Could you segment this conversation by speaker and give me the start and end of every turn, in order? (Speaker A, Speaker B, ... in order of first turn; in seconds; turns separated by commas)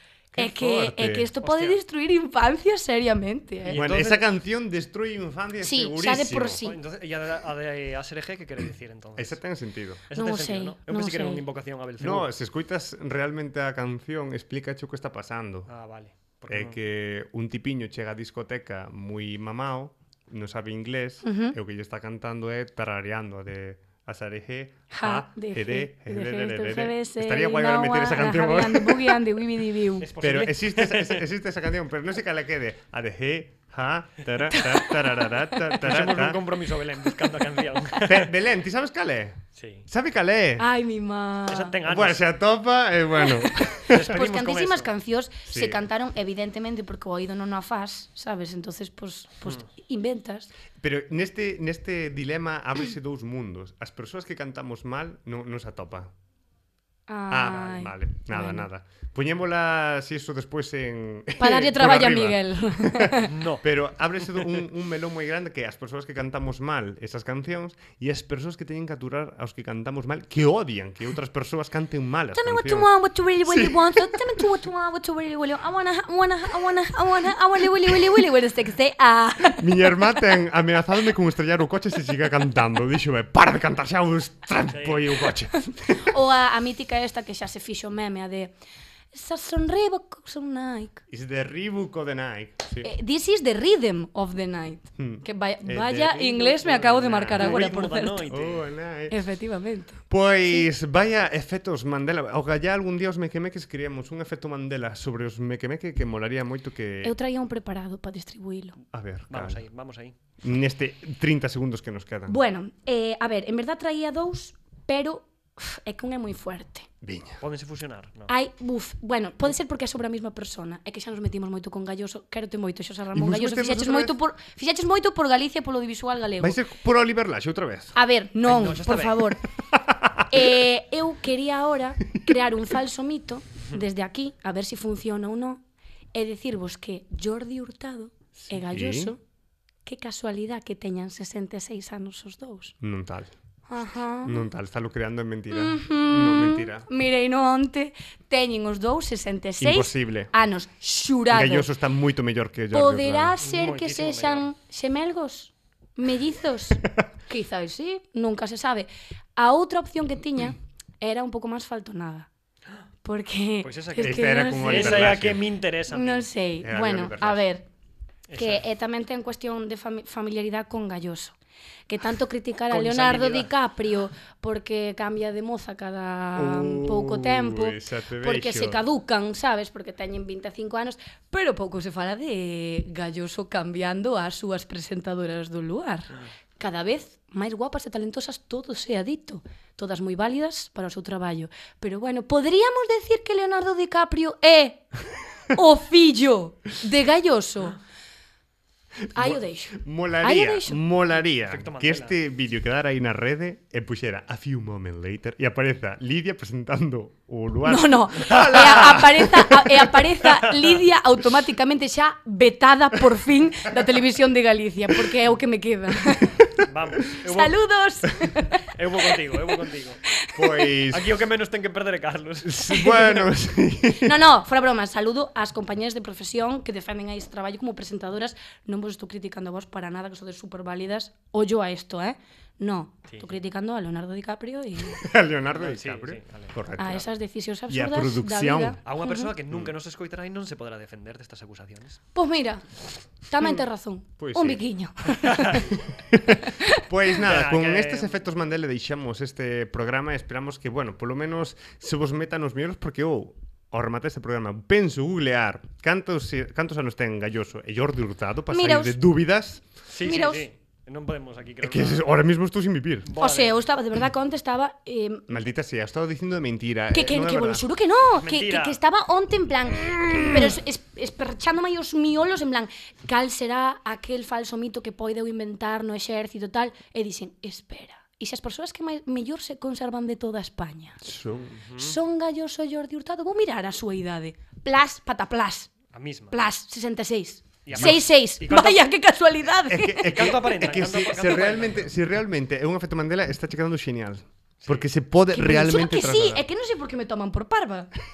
Speaker A: 0.3-1.3, Speaker B: 0.3-3.8, Speaker C: 1.4-1.8, Speaker C: 3.6-4.2, Speaker A: 3.7-6.6, Speaker B: 5.6-6.8, Speaker C: 6.6-9.4, Speaker A: 9.2-10.0, Speaker C: 10.1-12.3, Speaker B: 10.1-11.4, Speaker A: 12.0-15.7, Speaker C: 15.7-16.8, Speaker A: 16.5-29.2, Speaker B: 21.2-21.6, Speaker B: 24.9-30.1, Speaker C: 30.0-31.3, Speaker A: 30.2-36.4, Speaker B: 34.5-35.2, Speaker C: 35.8-38.3, Speaker A: 38.0-40.7, Speaker C: 39.5-39.9, Speaker B: 40.6-41.8, Speaker C: 41.5-42.2, Speaker A: 41.9-44.0, Speaker B: 43.3-50.5, Speaker C: 43.9-44.9, Speaker A: 45.5-45.8, Speaker A: 50.8-56.1, Speaker B: 57.1-58.7, Speaker A: 57.3-72.9, Speaker B: 61.4-63.4, Speaker C: 63.3-63.6, Speaker B: 72.3-80.1, Speaker A: 73.5-74.5, Speaker A: 79.6-86.1, Speaker C: 84.7-85.2, Speaker B: 85.8-88.5, Speaker B: 89.1-91.0, Speaker A: 91.1-92.9, Speaker B: 92.8-98.3, Speaker A: 95.0-97.7, Speaker C: 97.3-98.7, Speaker A: 98.2-99.2, Speaker B: 99.1-100.7, Speaker A: 100.1-107.2, Speaker B: 107.0-108.8, Speaker A: 108.9-109.6, Speaker C: 109.3-110.2, Speaker A: 110.4-112.4, Speaker B: 112.3-116.9, Speaker A: 117.0-117.4, Speaker C: 117.4-118.3, Speaker B: 118.3-126.6, Speaker A: 123.1-124.1, Speaker A: 126.4-128.0, Speaker B: 128.0-129.4, Speaker C: 128.4-129.3, Speaker A: 129.7-130.5, Speaker B: 130.3-135.6, Speaker B: 136.1-139.2, Speaker A: 138.4-139.2, Speaker B: 139.8-142.8, Speaker A: 142.8-143.3, Speaker B: 143.7-144.4, Speaker A: 144.2-146.9, Speaker B: 145.5-151.7, Speaker A: 149.6-150.3, Speaker A: 151.3-153.4, Speaker B: 152.7-162.3, Speaker C: 153.4-154.5, Speaker B: 163.0-165.2, Speaker C: 163.6-166.3, Speaker A: 164.0-165.4, Speaker B: 165.9-167.7, Speaker A: 166.6-167.4, Speaker C: 168.3-168.6, Speaker B: 168.3-171.4, Speaker B: 171.9-194.8, Speaker C: 172.7-173.5, Speaker A: 176.4-178.8, Speaker B: 195.5-197.8, Speaker A: 199.1-209.9, Speaker B: 199.1-200.8, Speaker C: 201.3-202.2, Speaker B: 207.7-216.6, Speaker C: 216.6-217.6, Speaker B: 217.1-218.7, Speaker C: 218.7-220.0, Speaker B: 220.1-220.6, Speaker A: 220.3-221.2, Speaker C: 220.9-222.9, Speaker A: 222.4-224.2, Speaker B: 222.7-223.1, Speaker B: 223.9-235.0, Speaker A: 234.9-237.1, Speaker C: 235.5-236.6, Speaker B: 236.8-239.3, Speaker A: 237.7-238.8, Speaker C: 238.8-242.0, Speaker B: 242.2-242.7, Speaker B: 243.2-245.6, Speaker A: 244.2-244.6, Speaker C: 245.2-245.6, Speaker A: 245.9-259.6, Speaker B: 246.4-246.8, Speaker C: 247.2-248.2, Speaker B: 258.5-259.0, Speaker C: 259.9-262.1, Speaker B: 260.0-260.5, Speaker A: 261.6-263.1, Speaker C: 263.0-263.6, Speaker B: 263.2-265.3, Speaker A: 265.3-267.6, Speaker B: 266.9-281.0, Speaker C: 268.2-268.8, Speaker A: 281.0-281.6, Speaker C: 281.6-282.0, Speaker B: 281.8-285.7, Speaker C: 285.9-286.4, Speaker B: 286.3-290.4, Speaker C: 287.7-288.8, Speaker A: 287.7-288.0, Speaker A: 289.7-296.5, Speaker C: 290.1-292.0, Speaker B: 295.3-297.9